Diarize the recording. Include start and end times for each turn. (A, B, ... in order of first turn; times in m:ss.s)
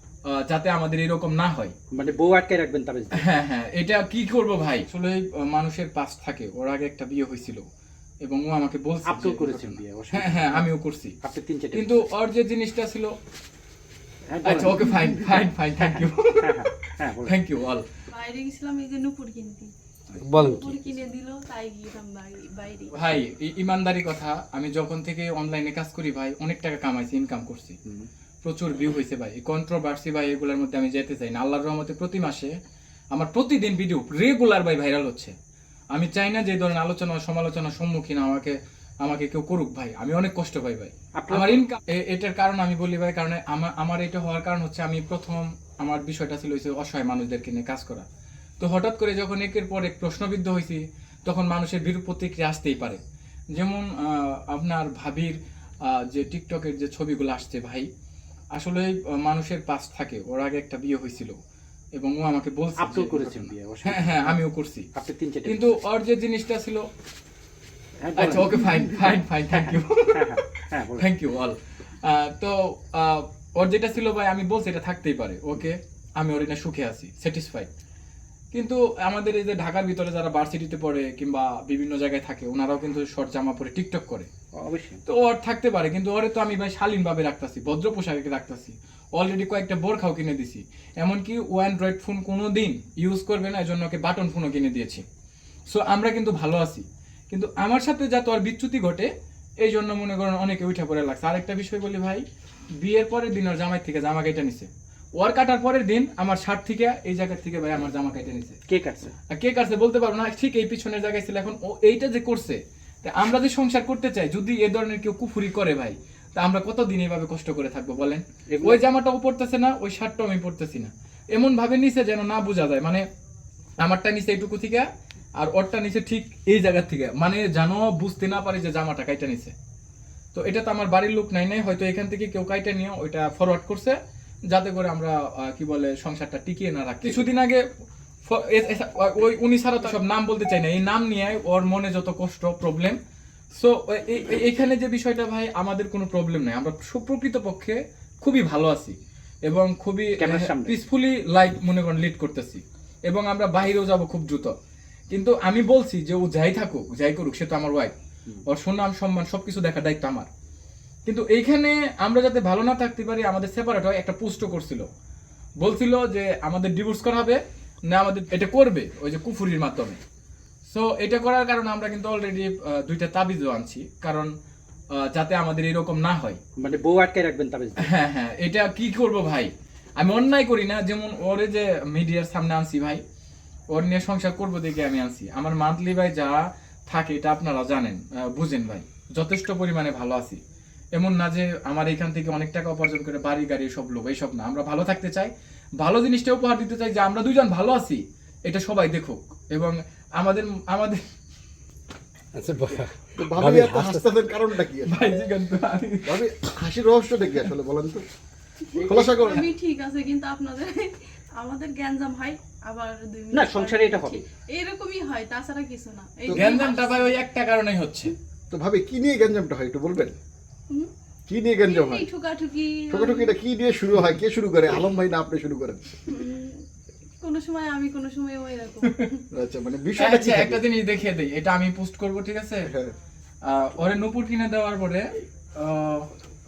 0:00.3-0:01.7 A
0:01.9-0:03.3 B
0:03.2-0:07.6 A
0:08.2-0:11.2 A
0:09.1-0:12.1 B
0:11.7-0:13.1 A
0:14.3-0:17.4 B
0:14.4-0:16.6 A
0:17.2-0:17.8 A
0:18.1-0:19.7 C
0:20.2-0:20.8 D
0:20.4-0:23.0 C
0:22.9-0:27.8 A
0:28.4-0:32.5 A
0:33.1-0:35.4 A
0:35.9-0:48.1 A
0:41.2-0:41.6 B
0:48.6-0:53.0 A
0:53.5-0:57.9 A
0:58.6-1:01.4 A
1:02.0-1:04.9 A
1:02.8-1:05.8 B
1:05.5-1:06.8 A
1:08.0-1:11.2 B
1:08.2-1:17.7 A
1:18.5-1:24.3 A
1:24.6-1:25.0 B
1:25.0-1:35.0 A
1:35.7-1:42.2 A
1:42.8-1:48.6 A
1:48.7-1:49.1 B
1:49.3-2:03.0 A
1:58.5-1:58.8 B
2:03.8-2:04.9 A
2:05.4-2:09.5 A
2:10.3-2:14.0 A
2:14.5-2:17.6 A
2:18.3-2:23.0 A
2:23.5-2:29.0 A
2:29.5-2:34.5 A
2:30.2-2:30.8 B
2:35.1-2:38.0 A
2:38.5-2:40.3 A
2:41.1-2:44.9 A
2:45.6-2:50.0 A
2:50.7-2:54.3 A
2:55.0-2:56.4 A
2:56.6-2:57.9 B
2:57.8-3:03.0 A
3:03.7-3:10.4 A
3:11.0-3:21.0 A
3:22.4-3:24.1 D
3:23.2-3:25.0 E
3:24.8-3:26.2 A
3:26.1-3:28.0 E
3:28.8-3:29.5 E
3:28.8-3:37.2 C
3:28.8-3:29.3 B
3:33.3-3:34.2 B
3:36.3-3:38.2 A
3:38.5-3:40.2 E
3:41.3-3:42.1 E
3:41.7-3:43.3 C
3:42.9-3:46.0 E
3:46.1-3:46.6 C
3:47.2-3:49.2 C
3:49.3-3:50.6 E
3:50.0-3:52.7 A
3:53.4-3:55.0 A
3:55.6-3:56.1 A